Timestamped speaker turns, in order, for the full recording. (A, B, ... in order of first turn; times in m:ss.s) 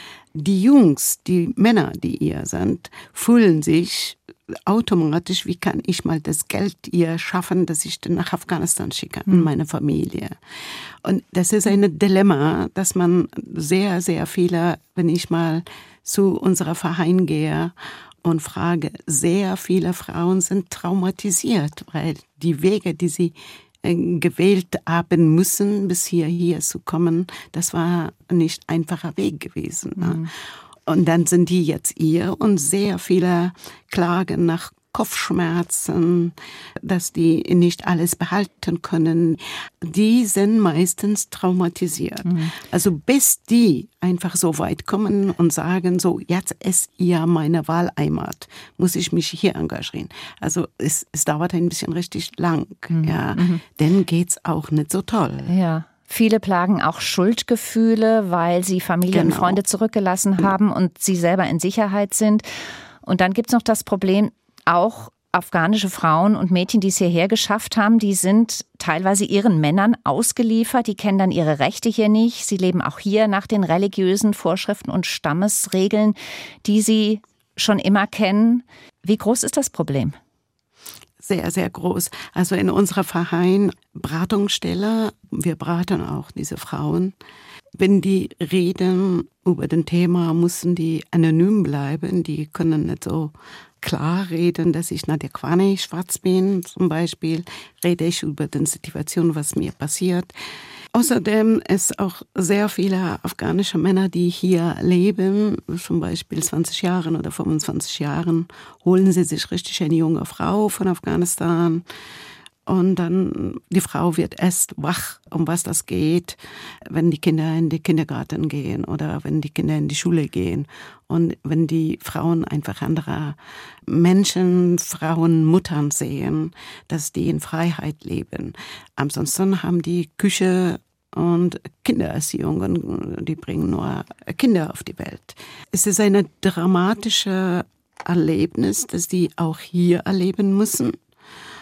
0:00.4-0:10.4 A
0:11.0-0:17.7 A
0:18.2-0:30.3 A
0:30.0-0:30.3 B
0:30.9-0:55.5 A
0:52.9-0:53.6 B
0:55.5-1:02.5 B
0:59.1-0:59.6 A
1:03.0-1:20.2 B
1:21.2-1:27.1 A
1:27.8-1:40.3 A
1:40.9-1:51.8 A
1:52.7-1:56.4 A
1:56.9-2:03.4 A
2:03.9-2:21.0 A